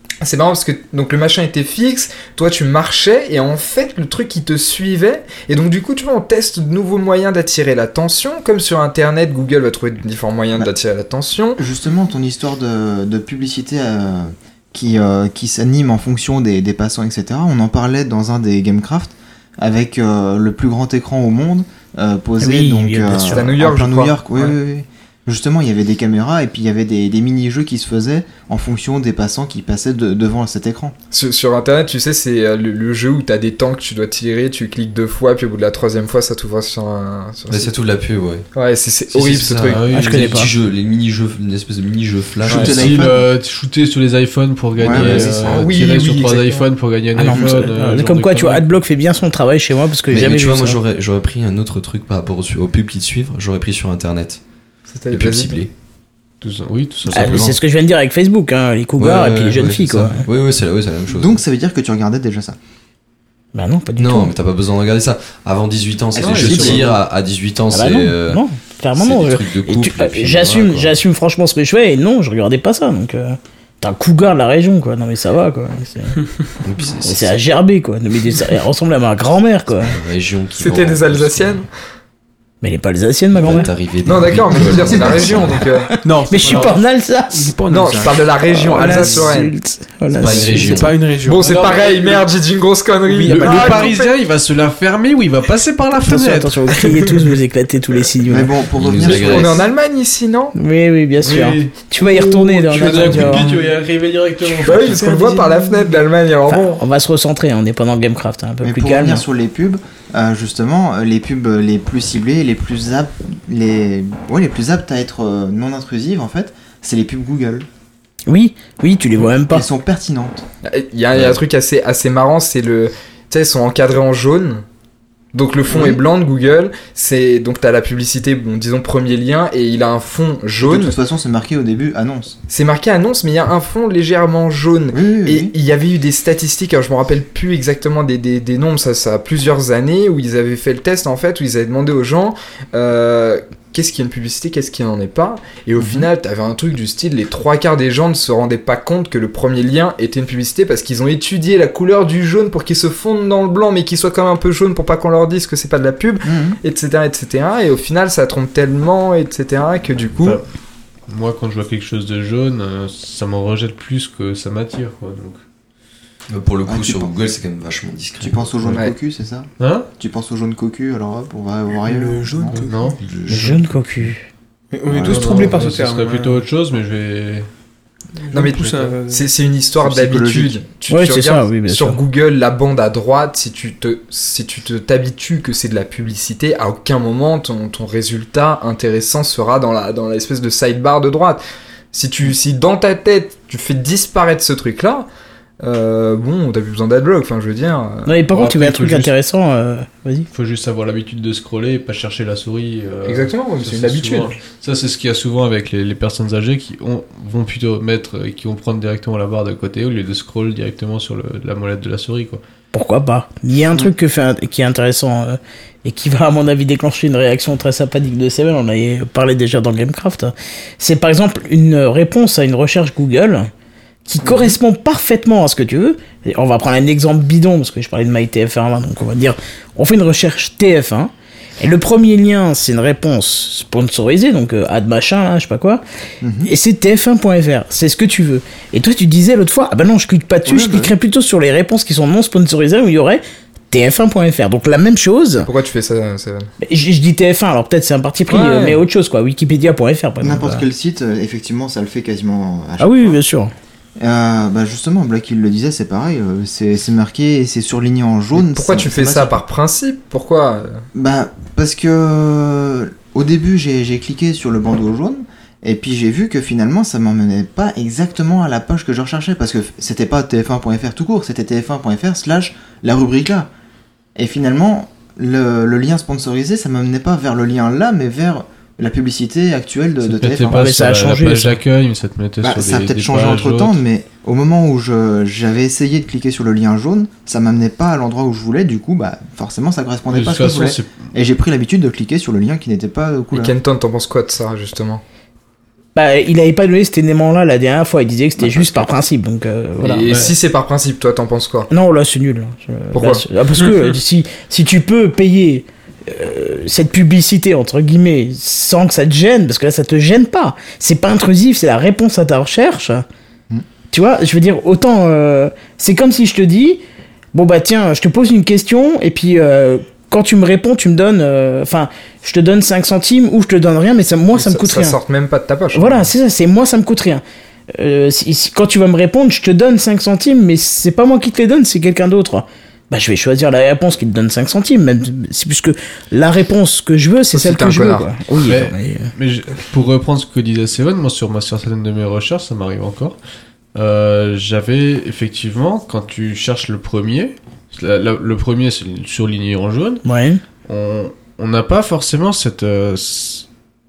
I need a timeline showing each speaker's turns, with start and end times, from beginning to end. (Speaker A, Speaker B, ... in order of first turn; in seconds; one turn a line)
Speaker A: 0.2-11.6
Speaker B: 11.6-30.9
Speaker C: 22.4-23.4
Speaker A: 23.3-24.6
Speaker A: 31.1-37.7
Speaker D: 37.5-38.5
Speaker A: 38.5-39.8
Speaker D: 39.1-43.1
Speaker E: 39.7-40.5
Speaker C: 39.9-40.5
Speaker B: 42.4-43.2
Speaker E: 42.5-48.7
Speaker D: 44.8-45.4
Speaker B: 44.8-46.0
Speaker A: 45.4-46.7
Speaker C: 47.2-50.8
Speaker B: 47.3-47.7
Speaker D: 50.1-54.4
Speaker A: 54.9-55.6
Speaker D: 55.1-55.7
Speaker E: 56.4-57.5
Speaker D: 57.0-57.6
Speaker C: 57.1-60.3
Speaker D: 59.0-61.4
Speaker B: 61.1-62.6
Speaker C: 63.5-64.3
Speaker D: 64.0-68.4
Speaker B: 66.2-67.0
Speaker E: 66.2-67.0
Speaker C: 67.7-76.2
Speaker D: 69.0-71.0
Speaker D: 76.6-77.4
Speaker C: 77.0-80.0
Speaker D: 79.8-81.7
Speaker A: 80.6-81.7
Speaker C: 82.6-83.7
Speaker D: 83.4-85.7
Speaker A: 84.0-86.0
Speaker B: 84.9-85.4
Speaker F: 86.0-89.3
Speaker C: 86.2-87.5
Speaker A: 87.7-89.5
Speaker C: 88.5-90.8
Speaker D: 90.1-91.1
Speaker F: 90.3-92.2
Speaker A: 91.2-94.1
Speaker E: 91.4-92.1
Speaker F: 93.1-94.0
Speaker E: 93.2-97.2
Speaker C: 96.1-98.5
Speaker B: 98.3-99.6
Speaker D: 98.7-99.7
Speaker A: 99.0-100.5
Speaker C: 100.6-103.5
Speaker E: 101.2-105.1
Speaker A: 102.8-103.6
Speaker A: 104.5-106.8
Speaker F: 104.6-106.0
Speaker C: 106.5-109.2
Speaker B: 108.6-117.7
Speaker C: 118.3-119.7
Speaker B: 119.5-120.4
Speaker A: 120.6-124.6
Speaker A: 125.3-131.0
Speaker B: 125.7-126.0
Speaker B: 130.6-132.4
Speaker A: 132.5-160.4
Speaker B: 134.9-135.5
Speaker B: 145.8-146.1
Speaker B: 156.2-156.6
Speaker E: 161.1-165.4
Speaker D: 166.3-168.7
Speaker B: 166.7-167.1
Speaker B: 168.2-172.6
Speaker E: 169.6-169.9
Speaker F: 171.8-173.0
Speaker E: 172.5-173.7
Speaker C: 173.3-174.3
Speaker F: 174.7-176.4
Speaker B: 174.9-175.6
Speaker E: 175.0-177.5
Speaker F: 178.2-179.3
Speaker A: 178.3-195.1
Speaker B: 179.8-180.6
Speaker C: 180.9-182.0
Speaker A: 195.6-198.1
Speaker C: 198.1-200.3
Speaker E: 198.3-199.1
Speaker E: 200.3-212.4
Speaker A: 203.1-204.4
Speaker C: 212.7-223.5
Speaker C: 224.1-235.8
Speaker B: 236.2-236.5
Speaker C: 236.4-245.5
Speaker B: 240.5-240.9
Speaker A: 245.4-246.5
Speaker C: 246.6-250.7
Speaker A: 248.3-248.8
Speaker B: 250.2-253.2
Speaker C: 252.8-253.5
Speaker B: 254.0-259.4
Speaker A: 258.4-260.9
Speaker B: 260.9-273.5
Speaker B: 274.2-280.6
Speaker E: 280.0-283.8
Speaker C: 280.5-281.6
Speaker B: 282.4-293.5
Speaker E: 290.1-291.1
Speaker A: 293.3-295.0
Speaker C: 295.9-300.1
Speaker A: 299.8-301.7
Speaker E: 300.1-300.3
Speaker C: 301.7-313.1
Speaker A: 302.9-303.2
Speaker C: 313.9-316.8
Speaker C: 317.3-325.0
Speaker A: 324.3-326.1
Speaker C: 325.7-327.2
Speaker C: 327.7-339.1
Speaker A: 337.3-338.1
Speaker E: 338.4-343.2
Speaker E: 343.7-350.1
Speaker C: 350.0-350.4
Speaker E: 350.6-353.5